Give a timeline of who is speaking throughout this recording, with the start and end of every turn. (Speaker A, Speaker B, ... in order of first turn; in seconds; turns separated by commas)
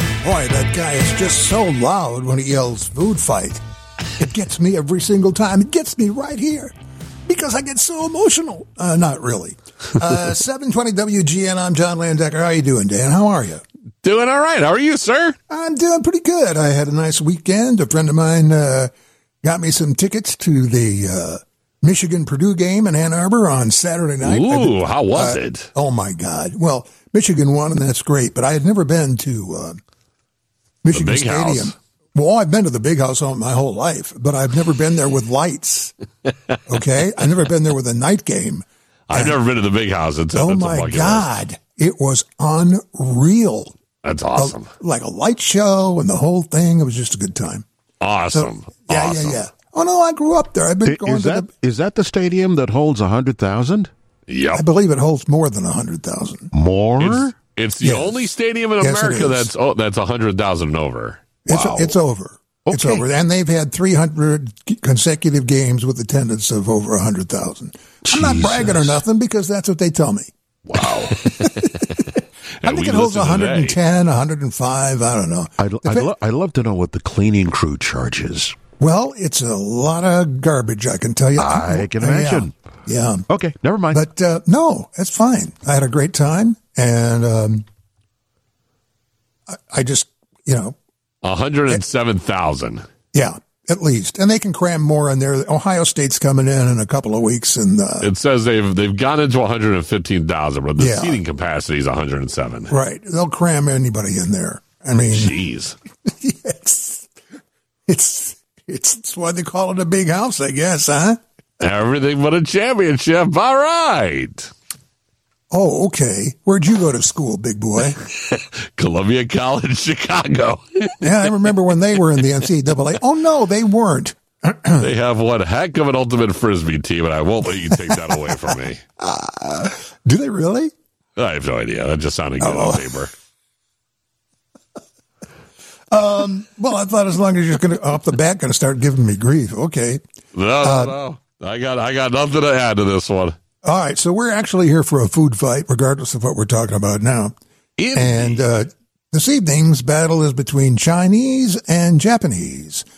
Speaker A: 0.2-3.6, Speaker A: 4.2-6.7, Speaker A: 7.3-13.6, Speaker B: 14.0-15.4, Speaker A: 15.5-18.9, Speaker A: 19.4-29.8, Speaker B: 24.2-25.7, Speaker A: 30.8-35.9, Speaker B: 30.9-31.8, Speaker A: 36.7-39.4, Speaker B: 39.1-41.3, Speaker A: 40.3-43.8, Speaker B: 44.0-44.7, Speaker A: 44.3-47.7, Speaker B: 48.0-49.4, Speaker A: 48.3-51.5, Speaker C: 50.9-53.9, Speaker B: 54.3-54.7, Speaker A: 54.5-56.5, Speaker C: 56.5-57.3, Speaker B: 57.0-61.9, Speaker A: 57.8-59.5, Speaker A: 61.5-70.3, Speaker C: 61.5-61.9, Speaker C: 62.7-63.0, Speaker C: 68.1-69.0, Speaker B: 70.7-72.1, Speaker A: 71.3-72.0, Speaker B: 72.6-73.8, Speaker A: 72.6-76.1, Speaker C: 75.6-78.5, Speaker A: 78.8-83.2, Speaker C: 81.4-82.5, Speaker C: 83.3-84.0, Speaker A: 83.9-87.7, Speaker A: 89.5-90.8, Speaker B: 91.2-92.8, Speaker A: 93.1-98.1, Speaker B: 98.0-102.7, Speaker A: 100.8-101.2, Speaker A: 102.7-105.4, Speaker B: 105.1-105.8, Speaker A: 106.1-107.1, Speaker A: 107.9-111.2, Speaker B: 111.6-114.5, Speaker A: 115.5-118.0, Speaker B: 118.1-121.3, Speaker A: 121.0-124.9, Speaker B: 124.8-128.8, Speaker A: 127.7-128.4, Speaker A: 129.0-130.7, Speaker B: 131.2-133.1, Speaker A: 132.4-133.1, Speaker A: 135.9-140.0, Speaker B: 140.3-143.4, Speaker A: 140.6-141.0, Speaker A: 143.6-147.3, Speaker B: 147.8-148.4, Speaker A: 147.9-152.8